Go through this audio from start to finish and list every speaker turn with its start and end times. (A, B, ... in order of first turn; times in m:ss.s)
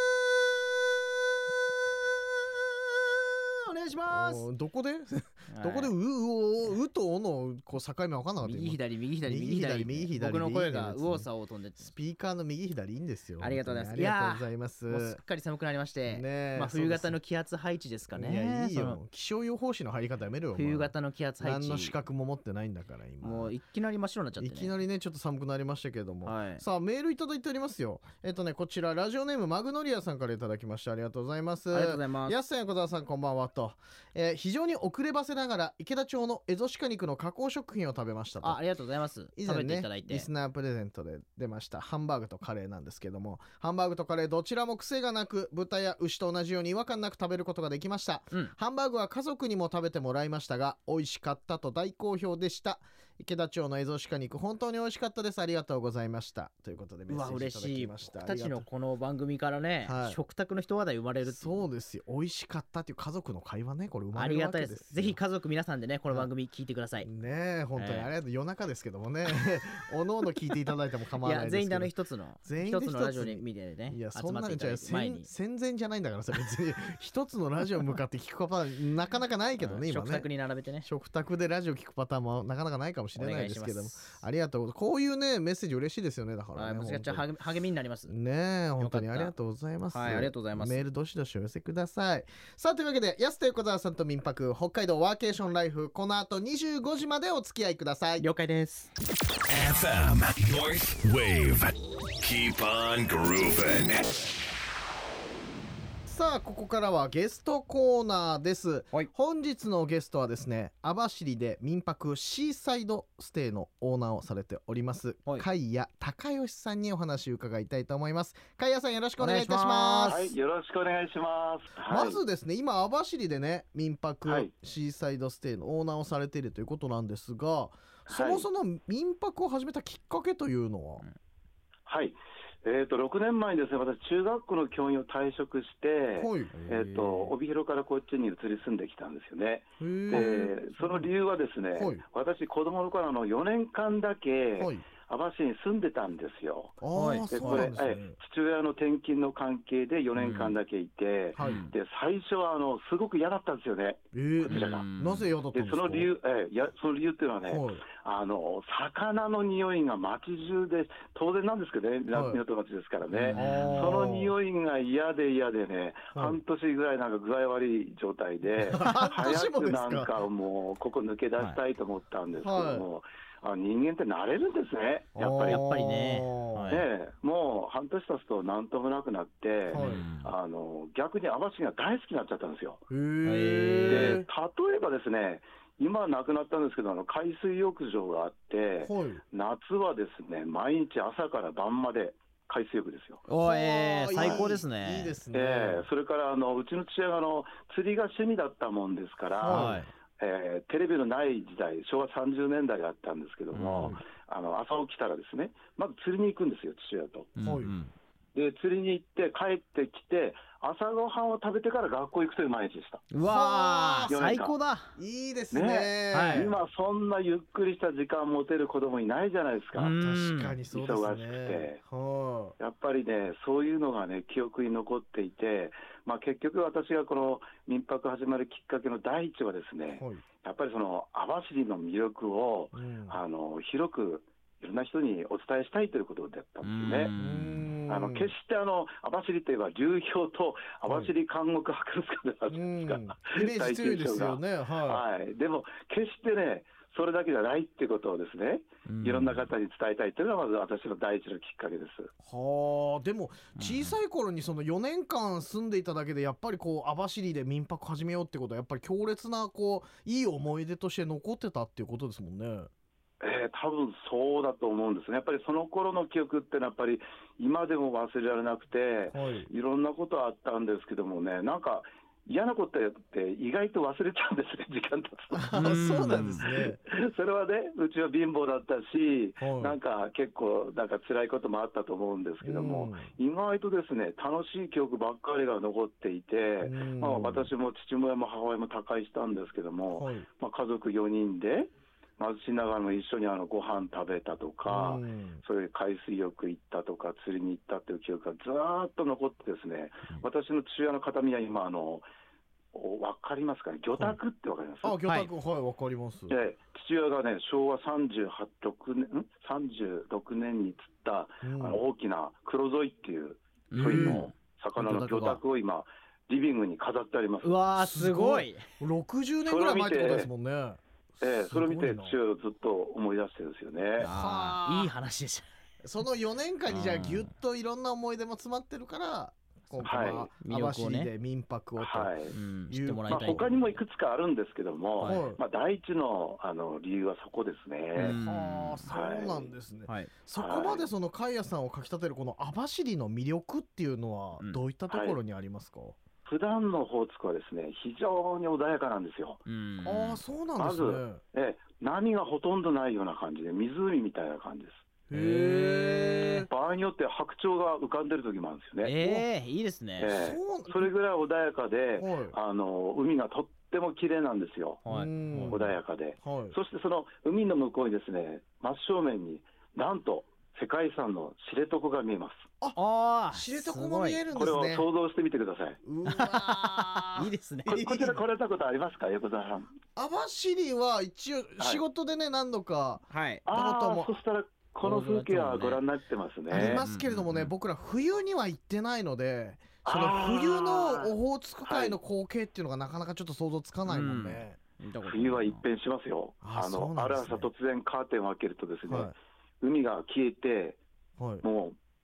0:03.0-0:04.5 A
0:04.0-0:15.2 B
0:05.5-0:05.9 A
0:08.4-0:11.9 A
0:13.4-0:19.0 A
0:16.0-0:17.2 B
0:18.1-0:23.5 B
0:20.5-0:21.9 A
0:23.2-0:24.7 A
0:24.4-0:38.6 B
0:26.2-0:26.6 A
0:31.7-0:32.4 A
0:38.4-0:40.3 A
0:39.4-0:58.7 B
0:57.1-1:01.7 A
0:59.8-1:00.2 B
1:01.2-1:05.2 B
1:04.1-1:07.1 A
1:07.0-1:20.3 B
1:07.8-1:08.1 A
1:11.2-1:15.3 A
1:19.6-1:20.9 A
1:20.8-1:27.3 B
1:23.1-1:24.1 A
1:26.6-1:28.1 A
1:28.1-1:38.3 B
1:28.8-1:29.3 A
1:29.9-1:30.8 A
1:38.2-1:38.9 A
1:39.5-1:44.2 C
1:46.1-2:00.3 B
1:59.2-2:00.3 A
2:00.1-2:02.2 D
2:01.9-2:11.0 B
2:04.2-2:04.5 D
2:08.1-2:08.4 D
2:11.9-2:34.8 D
2:16.2-2:16.5 B
2:16.5-2:17.3 A
2:19.8-2:21.1 B
2:21.7-2:22.0 B
2:24.6-2:24.8 B
2:26.8-2:28.2 B
2:26.9-2:27.7 A
2:30.2-2:30.6 A
2:31.3-2:31.6 B
2:31.4-2:31.7 A
2:34.1-2:36.1 B
2:34.4-2:35.3 A
2:35.5-2:55.7 D
2:37.4-2:37.8 B
2:42.1-2:42.4 B
2:43.1-2:44.2 A
2:43.3-2:44.3 B
2:46.1-2:46.4 B
2:48.5-2:50.1 B
2:52.4-2:52.8 B
2:55.2-2:56.7 B
2:55.4-2:56.9 A
2:56.7-3:02.8 D
2:59.7-3:00.0 B
2:59.7-3:00.3 A
3:02.9-3:04.3 B
3:03.2-3:04.2 A
3:03.9-3:13.2 D
3:08.8-3:09.2 B
3:13.3-3:15.2 A
3:13.4-3:15.9 B
3:14.1-3:14.5 D
3:15.3-3:27.3 D
3:19.4-3:19.8 B
3:19.4-3:19.9 A
3:23.5-3:24.0 A
3:27.4-3:27.9 A
3:27.4-3:27.7 B
3:28.3-3:33.1 D
3:33.1-3:34.9 A
3:33.2-3:34.2 B
3:34.0-3:34.6 D
3:35.0-3:36.6 B
3:35.5-3:40.0 D
3:36.1-3:36.5 A
3:39.7-3:40.6 A
3:40.0-3:42.6 B
3:40.7-3:41.8 D
3:42.6-3:57.2 D
3:49.9-3:50.2 B
3:52.7-3:53.2 B
3:56.6-3:57.7 A
3:57.2-3:58.3 B
3:57.9-4:12.1 D
4:00.8-4:01.1 B
4:02.5-4:05.0 B
4:08.8-4:09.5 A
4:12.2-4:22.7 B
4:13.6-4:14.0 A
4:23.2-5:02.0 D
4:29.1-4:29.5 B
4:35.3-4:36.8 B
4:35.5-4:36.4 A
4:39.4-4:39.8 B
4:42.4-4:43.1 B
4:46.6-4:47.5 B
4:49.9-4:50.3 B
4:54.6-4:55.4 B
5:02.7-5:05.0 D
5:04.8-5:06.4 B
5:05.0-5:05.3 A
5:06.3-5:17.6 D
5:11.4-5:11.8 B
5:13.7-5:15.4 A
5:13.8-5:14.3 B
5:17.4-5:18.6 A
5:17.8-5:22.2 B
5:19.4-5:20.3 D
5:21.2-5:24.1 D
5:24.0-5:24.9 B
5:24.0-5:25.5 A
5:25.8-5:32.2 B
5:26.7-5:27.3 A
5:29.7-5:31.1 A
5:29.8-5:30.3 D
5:31.8-5:32.3 D
5:32.3-5:33.5 A
5:32.7-5:33.6 B
5:33.1-5:38.2 D
5:35.0-5:35.3 A
5:35.0-5:35.4 B
5:38.0-5:38.9 A
5:38.0-5:46.0 B
5:38.9-5:39.5 D
5:40.3-5:40.9 D
5:44.9-5:45.2 D
5:46.2-5:49.4 D
5:49.4-5:50.2 A
5:49.8-5:51.2 B
5:50.6-5:54.8 D
5:55.1-5:56.5 B
5:55.1-5:56.5 A
5:56.5-5:59.0 D
5:58.8-6:00.2 A
5:59.0-5:59.2 B
6:00.0-6:04.8 D
6:00.1-6:00.9 B
6:02.0-6:02.4 B
6:04.8-6:05.6 A
6:04.9-6:06.6 B
6:05.5-6:12.5 D
6:12.7-6:14.2 A
6:13.3-6:14.9 B
6:14.3-6:15.8 D
6:15.8-6:18.2 B
6:16.0-6:17.9 A
6:17.7-6:19.7 D
6:20.0-6:24.2 B
6:21.6-6:21.8 D
6:23.1-6:23.4 A
6:23.4-6:26.8 D
6:24.8-6:25.8 A
6:26.5-6:34.6 B
6:26.5-6:27.5 A
6:29.8-6:32.0 D
6:33.8-6:35.6 A
6:35.0-6:40.8 D
6:36.4-6:37.5 B
6:38.8-6:39.1 B
6:41.2-6:41.4 B
6:41.4-6:41.8 D